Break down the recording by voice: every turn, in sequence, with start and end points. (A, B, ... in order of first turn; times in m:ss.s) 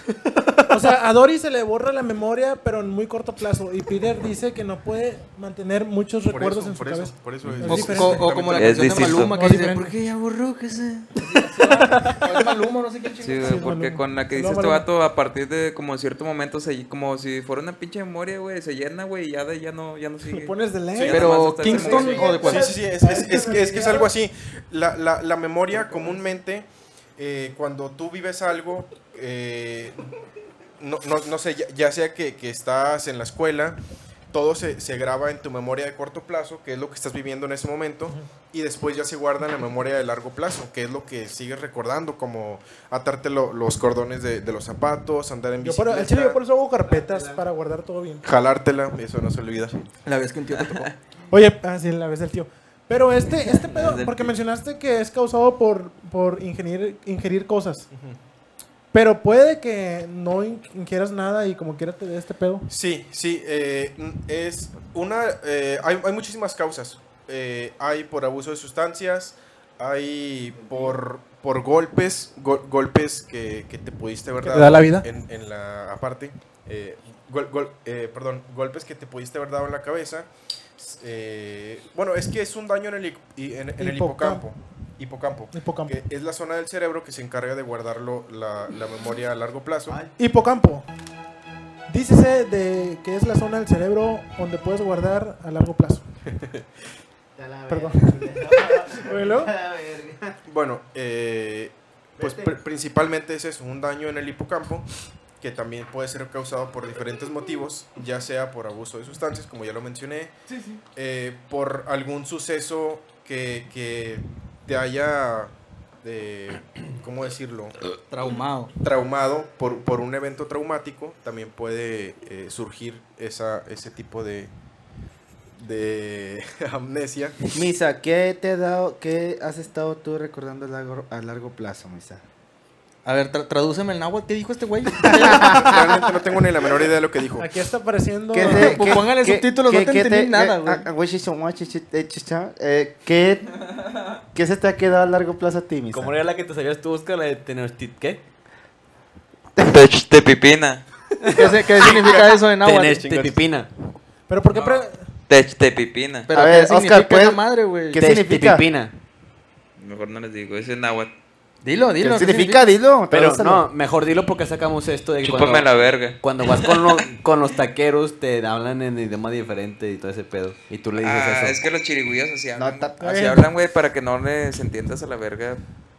0:00.2-0:00.6 A
0:00.7-0:08.3 B
0:06.2-0:09.3 C
0:07.6-0:13.6 A
0:08.5-0:09.4 D
0:09.3-0:09.9 B
0:11.6-0:12.4 B
0:13.2-0:22.6 D
0:13.4-0:14.8 B
0:20.2-0:24.1 B
0:21.0-0:30.1 C
0:21.1-0:22.7 A
0:30.8-0:33.8 C
0:34.3-0:46.4 C
0:45.6-0:48.2 B
0:48.2-0:49.9 C
0:50.0-0:50.9 A
0:51.3-0:57.9 B
0:53.8-0:54.2 A
0:57.9-0:58.2 C
0:58.9-1:02.7 B
1:02.7-1:30.0 C
1:14.4-1:15.0 B
1:23.8-1:24.4 B
1:25.5-1:26.0 B
1:30.2-1:30.9 B
1:31.9-1:36.0 B
1:36.3-1:36.6 C
1:37.4-1:40.4 E
1:37.7-1:38.2 B
1:38.9-1:39.5 B
1:40.5-1:44.9 C
1:42.2-1:42.6 E
1:45.4-1:50.3 C
1:50.9-1:57.8 C
1:58.0-1:58.7 A
1:58.8-2:04.5 C
2:05.6-2:07.4 C
2:07.5-2:12.2 E
2:13.0-2:15.7 A
2:15.0-2:16.0 E
2:15.2-2:17.5 C
2:17.4-2:18.8 B
2:18.3-2:23.7 E
2:18.4-2:20.8 A
2:24.3-2:26.2 E
2:25.9-2:28.2 F
2:29.6-2:30.8 D
2:31.3-2:33.7 F
2:31.3-2:33.3 A
2:31.8-2:32.3 C
2:34.3-2:35.0 B
2:34.5-2:36.3 D
2:36.3-2:38.0 A
2:36.3-2:38.7 E
2:38.0-2:38.9 F
2:39.8-2:41.1 D
2:41.6-2:42.7 A
2:42.0-2:43.7 E
2:43.1-2:51.6 F
2:45.2-2:47.0 D
2:51.0-2:55.6 D
2:52.6-2:53.3 E
2:53.0-2:53.5 B